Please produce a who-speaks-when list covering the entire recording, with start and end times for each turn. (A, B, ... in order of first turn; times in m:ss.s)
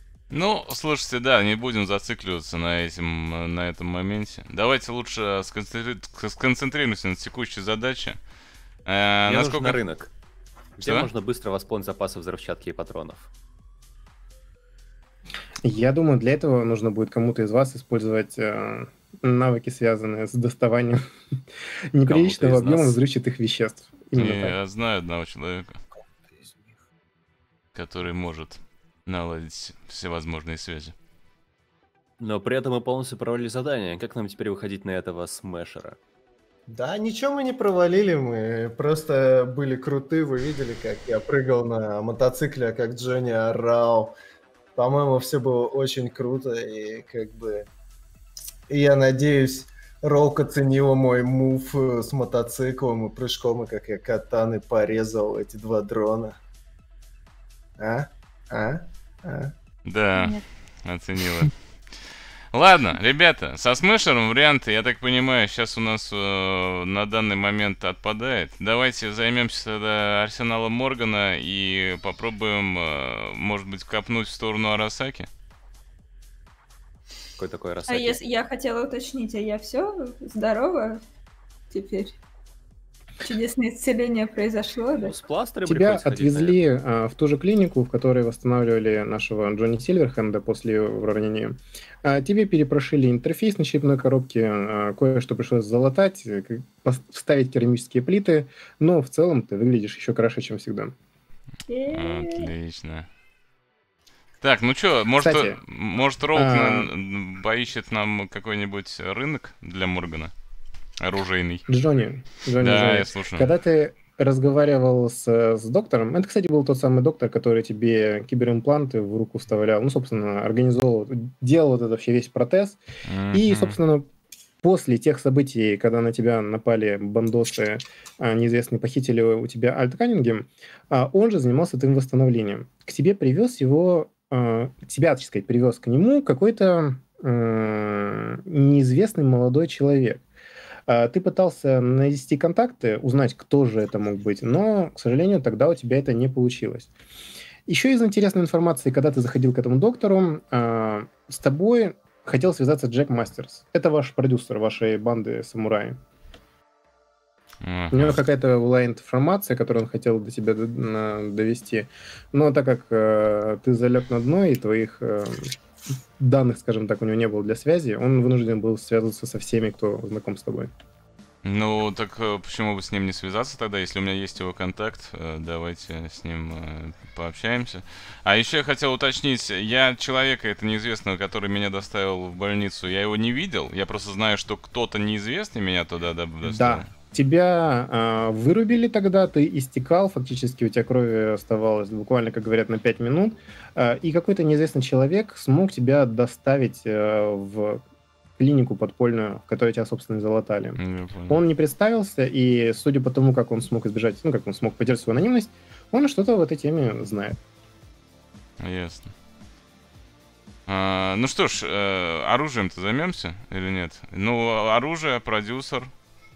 0:00.3-0:08.2 A
0:08.9-0:09.8 A
0:09.3-0:10.1 B
0:10.8-0:11.1 A
0:10.8-0:13.3 B
0:15.6-0:21.0 C
0:21.9-0:24.6 C
0:22.1-0:23.0 B
0:24.2-0:25.8 A
0:26.4-0:26.7 D
0:27.7-0:30.9 A
0:32.2-0:36.0 B
0:36.7-0:44.1 D
0:44.8-0:47.7 D
0:48.7-0:56.4 D
0:57.8-0:59.5 D
0:59.8-1:01.6 A
1:02.5-1:15.3 A
1:17.4-1:18.2 B
1:17.9-1:21.0 E
1:21.7-1:22.1 E
1:23.2-1:25.1 E
1:25.0-1:26.6 B
1:25.7-1:40.9 C
1:41.7-1:42.5 E
1:41.9-1:43.1 A
1:44.4-1:50.3 A
1:45.2-1:45.6 C
1:46.3-1:46.9 C
1:51.0-1:51.7 A
1:51.7-2:02.8 C
1:52.6-1:53.5 A
2:03.0-2:03.8 A
2:03.3-2:04.1 C
2:04.6-2:20.2 C
2:20.9-2:26.9 C
2:27.7-2:36.0 C
2:37.6-2:38.2 A
2:37.9-2:45.5 C
2:46.2-2:50.7 C
2:51.4-3:06.9 A
3:06.4-3:17.8 C
3:18.4-3:27.4 C
3:20.8-3:21.4 A
3:28.6-3:29.1 A
3:30.7-3:35.9 A